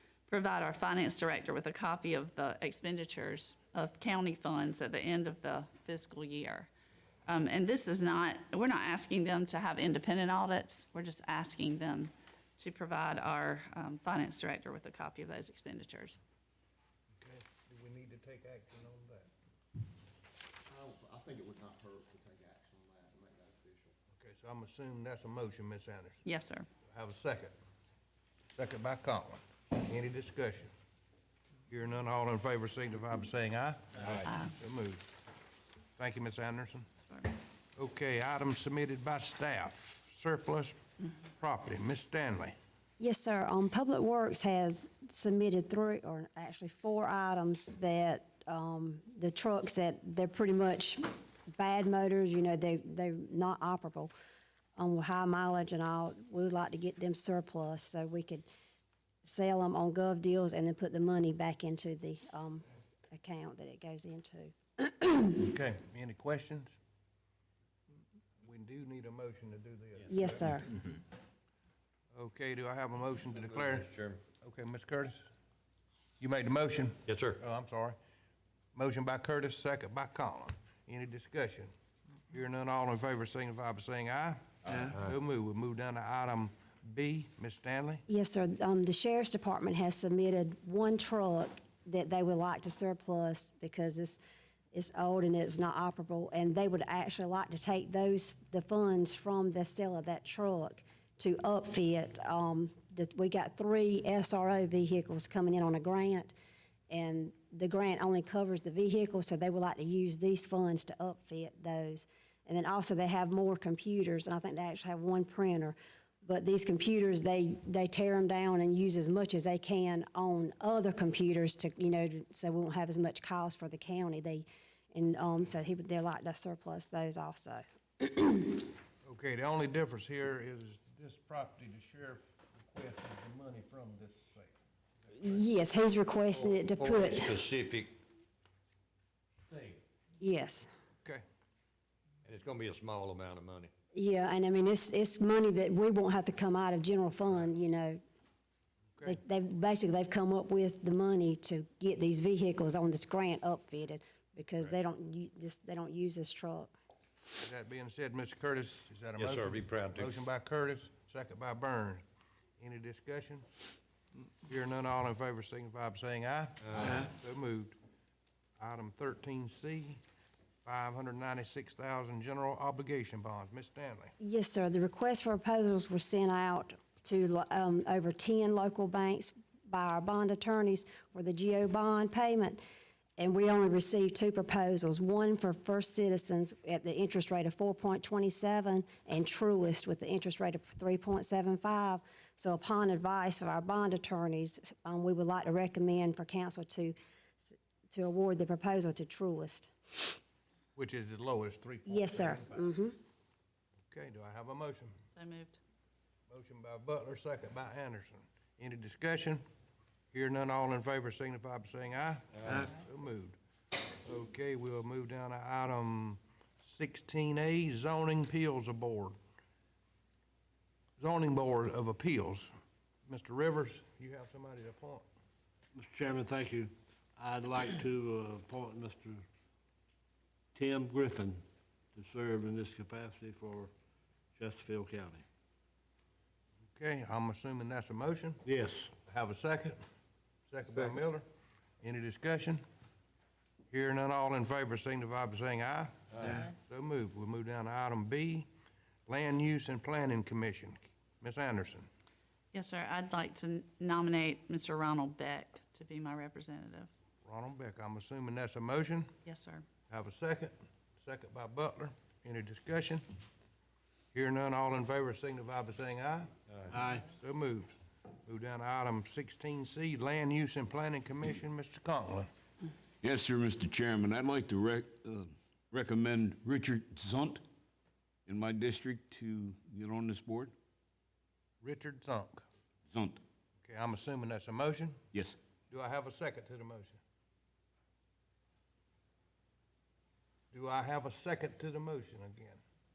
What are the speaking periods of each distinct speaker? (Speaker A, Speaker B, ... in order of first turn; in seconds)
Speaker A: 0.3-6.7, 7.3-16.2, 26.2-26.7, 34.3-34.5, 205.1-205.6, 252.5-256.9, 259.2-259.6
Speaker B: 17.2-19.3, 24.2-26.2, 26.9-27.5, 28.6-30.7, 31.7-35.1, 36.0-36.9, 37.8-40.8, 41.4-42.5, 65.4-66.8, 68.4-70.5, 72.1-75.2, 76.2-78.0, 78.8-81.7, 82.3-88.0, 129.1-134.6, 157.4-162.0, 162.6-163.5, 164.4-167.8, 168.6-170.0, 170.7-174.1, 200.8-202.6, 203.9-204.9, 206.3-209.4, 210.1-213.4, 214.0-219.2, 221.0-222.5, 223.1-225.1, 236.8-238.4, 239.1-239.8, 240.5-241.2, 241.8-242.6, 243.7-248.5, 249.1-251.9, 257.2-259.1, 259.9-263.0, 264.1-266.3, 267.1-267.7, 268.3-272.3, 281.6-282.4, 283.6-285.0, 285.7-287.0, 290.5-292.6
Speaker C: 20.7-23.9
Speaker D: 43.0-54.1, 54.8-58.5, 59.2-65.4, 70.1-70.7, 88.1-94.2, 94.7-106.3, 106.9-128.7, 135.1-137.4, 140.2-140.7, 143.9-148.0, 149.0-156.7, 174.2-182.6, 183.2-197.0, 197.9-200.2, 201.9-203.0
Speaker E: 73.3-74.2, 77.1-77.4, 136.3-138.0, 139.5-139.8, 142.2-143.7, 159.2-160.1
Speaker F: 225.8-229.3, 230.6-231.4, 231.9-233.7, 234.4-235.2, 238.5-238.9, 246.2-246.5, 266.7-267.1
Speaker G: 273.0-277.4, 278.3-280.5, 282.9-283.2